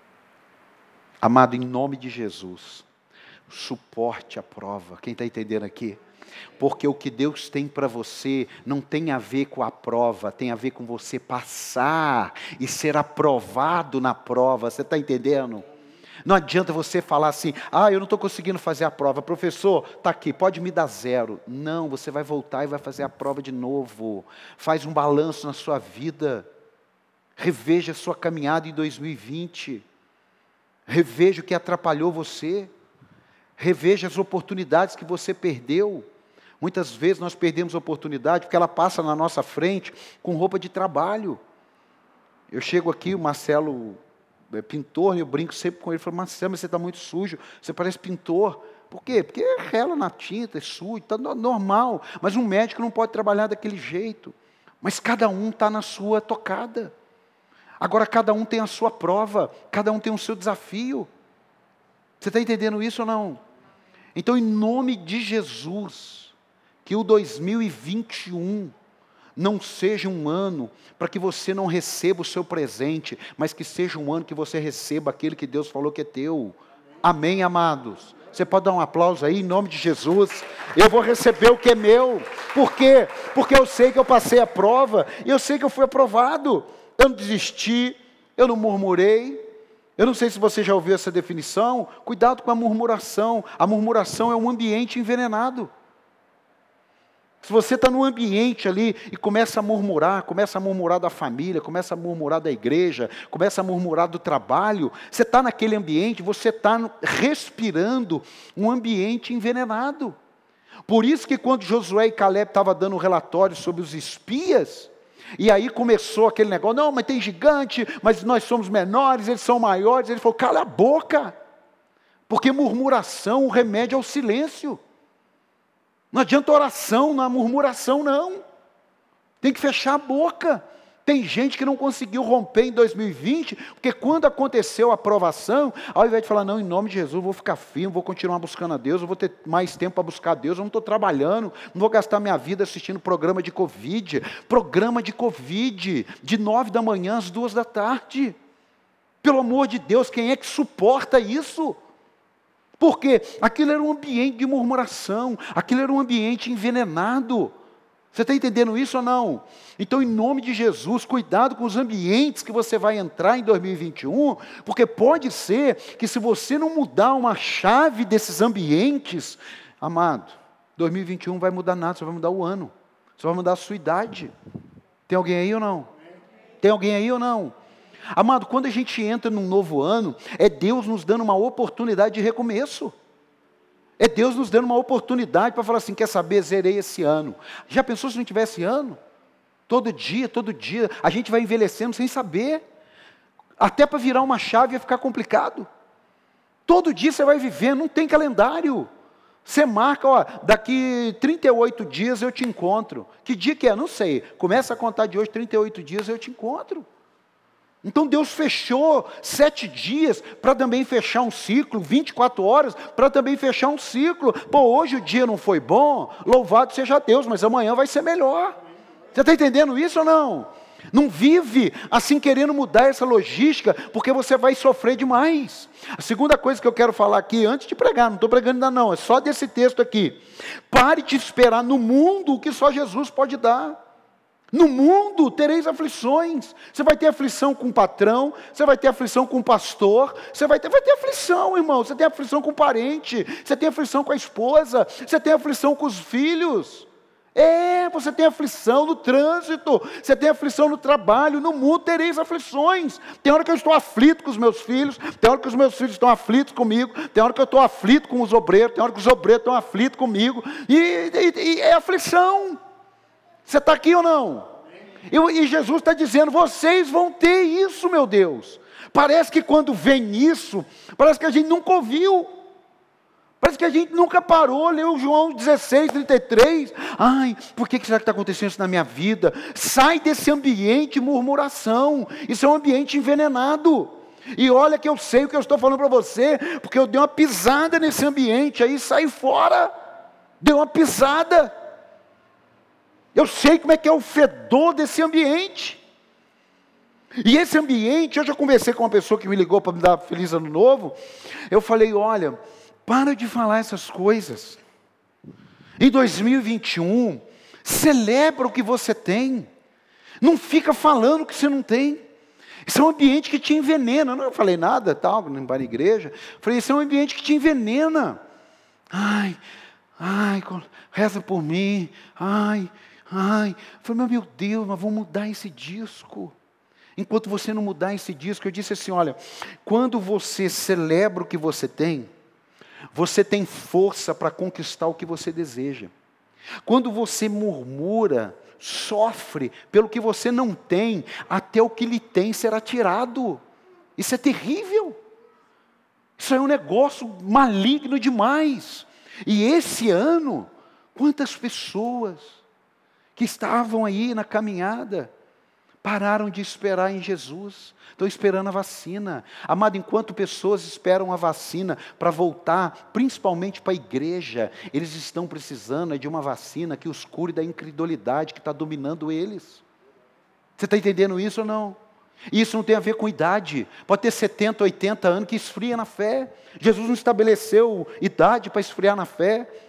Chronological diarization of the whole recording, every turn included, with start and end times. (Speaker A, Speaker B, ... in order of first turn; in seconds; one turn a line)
Speaker A: 1.2-2.9
Speaker A: 3.5-6.0
Speaker A: 6.6-15.7
Speaker A: 16.2-26.5
Speaker A: 27.4-29.9
Speaker A: 30.9-32.7
Speaker A: 33.6-36.1
Speaker A: 36.6-41.4
Speaker A: 42.5-44.0
Speaker A: 44.5-56.9
Speaker A: 57.8-61.1
Speaker A: 62.2-63.4
Speaker A: 64.2-68.7
Speaker A: 69.4-89.4
Speaker A: 90.0-95.7
Speaker A: 97.4-110.2
Speaker A: 110.9-121.4
Speaker A: 122.3-124.8
Speaker A: 126.1-128.4
Speaker A: 129.4-148.4
Speaker A: 149.2-151.8
Speaker A: 152.8-157.6
Speaker A: 158.1-174.3
Speaker A: 175.1-175.9
Speaker A: 176.6-177.6
Speaker A: 178.1-182.9
Speaker A: 184.0-189.0
Speaker A: 189.7-192.6
Speaker A: 193.6-195.7
Speaker A: 196.7-198.9
Speaker A: 199.4-206.9
Speaker A: 207.8-218.6
Speaker A: 219.1-233.8
Speaker A: 234.5-262.6
Speaker A: 263.4-264.5
Speaker A: 265.1-272.3
Speaker A: 273.4-289.7
Speaker A: 290.4-291.5
Speaker A: 293.1-295.8
Speaker A: 297.2-301.0
Speaker A: 301.5-304.6
Speaker A: 305.8-309.5
Speaker A: 310.2-312.0
Speaker A: 312.7-318.2
Speaker A: 318.9-319.4
Speaker A: 320.0-326.4
Speaker A: 327.0-332.1
Speaker A: 332.9-335.9
Speaker A: 336.6-343.4
Speaker A: 344.0-345.0
Speaker A: 346.2-352.4
Speaker A: 353.2-355.1
Speaker A: 355.8-369.6
Speaker A: 370.6-371.8
Speaker A: 372.3-379.5